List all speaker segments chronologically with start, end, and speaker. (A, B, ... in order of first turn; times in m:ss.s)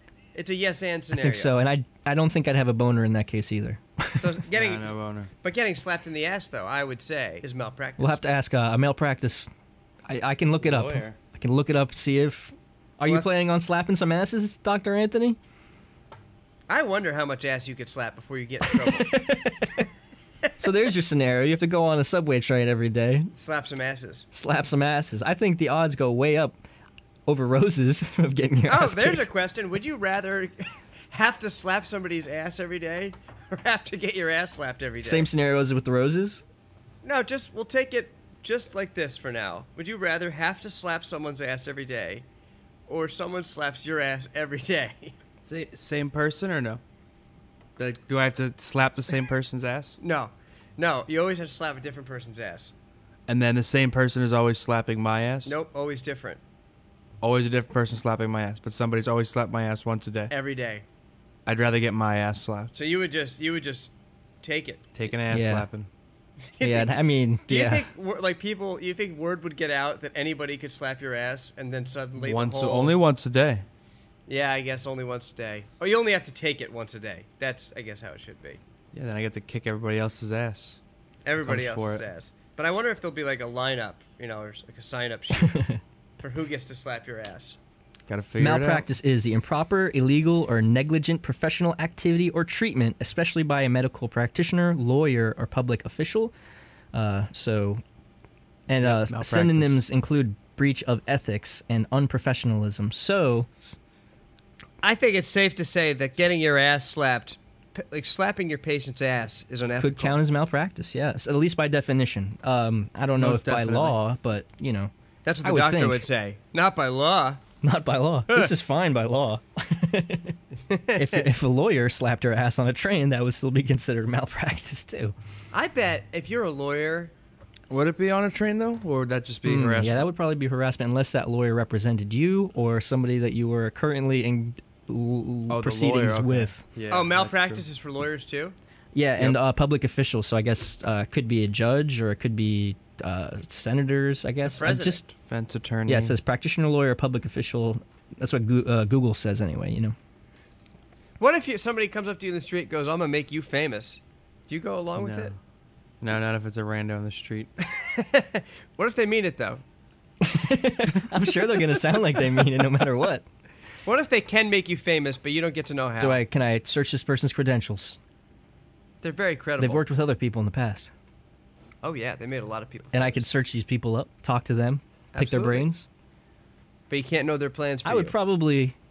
0:00.3-0:01.6 A
0:01.1-0:04.3 B
0:04.2-0:08.2 A
0:04.5-0:05.3 C
0:08.0-0:09.5 B
0:10.1-0:15.4 B
0:10.6-0:11.2 C
0:16.7-0:19.3 A
0:18.6-0:19.8 B
0:20.6-0:23.3 B
0:23.3-0:24.2 A
0:24.3-0:26.6 B
0:27.2-0:29.3 B
0:28.7-0:35.3 A
0:35.0-0:36.4 B
0:37.0-0:42.2 A
0:42.9-0:45.2 A
0:45.4-0:46.8 C
0:47.8-0:50.0 C
0:50.0-0:52.7 A
0:53.3-0:55.5 C
0:55.4-0:56.4 A
0:57.2-1:00.3 C
1:00.3-1:00.8 A
1:01.4-1:02.7 C
1:02.7-1:03.9 A
1:04.4-1:04.8 A
1:04.9-1:05.9 C
1:05.3-1:05.7 B
1:06.5-1:13.0 A
1:06.6-1:07.9 B
1:12.2-1:13.6 C
1:14.3-1:18.6 A
1:18.9-1:20.8 C
1:21.2-1:25.6 A
1:21.4-1:22.0 C
1:25.4-1:25.8 B
1:26.2-1:27.6 A
1:28.1-1:28.8 C
1:28.4-1:36.3 B
1:36.9-1:37.8 B
1:38.7-1:43.7 B
1:38.8-1:39.8 C
1:44.8-1:50.2 A
1:49.8-1:54.9 B
1:53.2-1:54.0 C
1:55.2-1:57.4 A
1:55.4-1:56.0 B
1:57.6-2:00.4 B
2:00.7-2:01.3 A
2:00.9-2:05.1 B
2:05.5-2:07.1 A
2:07.7-2:10.1 C
2:09.4-2:16.6 B
2:15.5-2:17.6 C
2:16.9-2:18.5 A
2:18.9-2:25.0 B
2:24.4-2:25.1 A
2:25.2-2:26.1 C
2:25.9-2:29.9 B
2:31.2-2:35.3 A
2:35.0-2:35.4 C
2:36.0-2:37.5 C
2:37.6-2:39.6 A
2:40.2-2:43.2 B
2:43.8-2:46.2 A
2:46.0-2:48.0 B
2:49.0-2:49.8 A
2:49.6-2:50.9 B
2:51.8-2:53.3 A
2:52.9-2:55.8 B
2:55.1-2:55.7 A
2:56.9-2:58.1 A
2:57.8-2:58.8 B